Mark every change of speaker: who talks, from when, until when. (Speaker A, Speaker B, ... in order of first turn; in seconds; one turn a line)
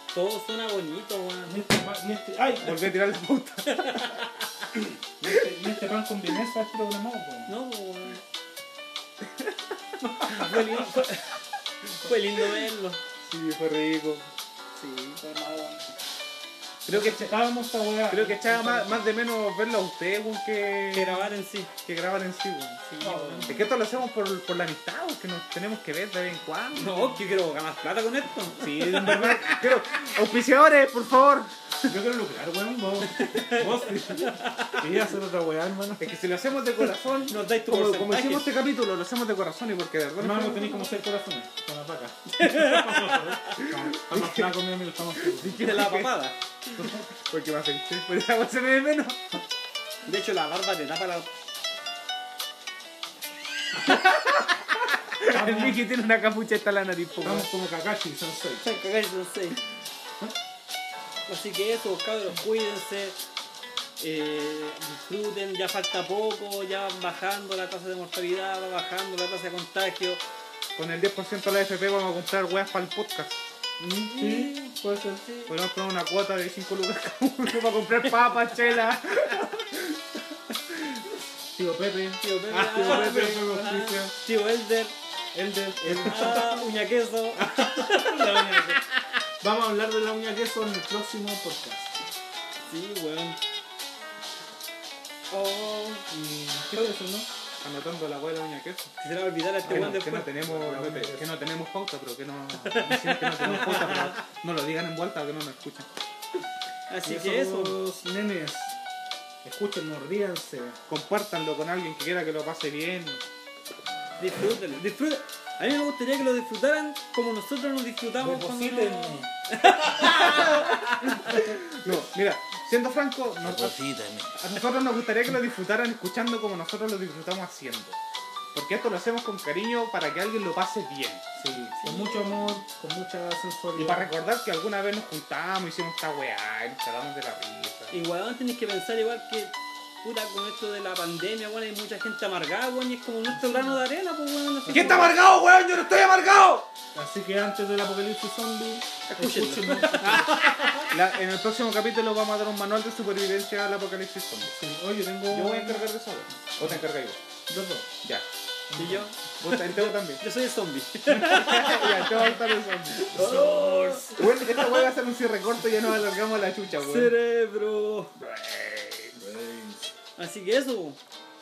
Speaker A: 0.1-1.6
Speaker B: 1.5-2.9
Speaker C: 2.6-4.2
Speaker A: 3.7-4.3
Speaker B: 4.8-7.5
Speaker A: 7.5-8.2
Speaker B: 10.2-10.9
Speaker A: 10.2-13.0
Speaker C: 13.2-14.3
Speaker A: 14.7-15.2
Speaker B: 15.2-15.8
Speaker C: 16.9-17.4
Speaker B: 16.9-19.0
Speaker C: 18.1-22.8
Speaker A: 20.9-21.7
Speaker A: 22.9-23.7
Speaker B: 23.0-23.7
Speaker C: 23.5-27.1
Speaker A: 26.8-29.4
Speaker C: 28.6-31.9
Speaker B: 31.9-36.1
Speaker A: 33.1-34.9
Speaker C: 36.0-40.9
Speaker A: 37.3-38.5
Speaker B: 40.2-45.7
Speaker A: 42.4-43.6
Speaker C: 43.6-44.5
Speaker C: 45.2-46.3
Speaker A: 45.5-46.4
Speaker B: 46.8-47.1
Speaker C: 47.2-49.3
Speaker A: 50.0-51.3
Speaker C: 53.9-57.5
Speaker B: 55.2-55.8
Speaker B: 57.2-58.6
Speaker A: 58.6-59.6
Speaker A: 61.3-63.2
Speaker A: 64.0-70.2
Speaker C: 70.8-73.4
Speaker B: 73.8-75.3
Speaker A: 74.1-75.5
Speaker C: 75.5-81.0
Speaker B: 81.5-84.2
Speaker A: 82.2-85.0
Speaker C: 82.9-83.2
Speaker B: 85.3-86.6
Speaker C: 85.8-86.3
Speaker A: 86.0-89.0
Speaker B: 87.4-88.8
Speaker B: 89.4-92.0
Speaker A: 92.7-93.4
Speaker A: 95.3-96.1
Speaker B: 96.1-97.3
Speaker C: 97.6-98.9
Speaker A: 99.0-100.3
Speaker B: 99.7-101.3
Speaker C: 99.7-105.9
Speaker A: 102.6-104.2
Speaker B: 103.5-104.1
Speaker A: 106.9-107.8
Speaker B: 107.1-108.8
Speaker B: 109.4-110.8
Speaker C: 110.9-113.2
Speaker A: 114.2-121.6
Speaker B: 118.2-120.2
Speaker C: 120.0-128.0
Speaker B: 123.5-124.3
Speaker C: 128.5-131.2
Speaker B: 131.4-134.1
Speaker A: 131.8-132.6
Speaker C: 133.8-138.0
Speaker A: 137.9-145.1
Speaker B: 143.3-143.8
Speaker B: 144.7-145.1
Speaker C: 144.7-146.7
Speaker B: 146.9-150.8
Speaker A: 149.1-150.9
Speaker C: 150.9-154.5
Speaker B: 154.4-155.8
Speaker C: 155.3-157.2
Speaker B: 157.5-157.9
Speaker B: 158.7-159.1
Speaker A: 158.8-164.9
Speaker C: 159.4-160.2
Speaker B: 161.1-161.4
Speaker C: 161.2-163.2
Speaker B: 163.1-164.2
Speaker C: 164.1-167.1
Speaker A: 166.7-168.3
Speaker B: 169.2-169.9
Speaker A: 170.2-171.0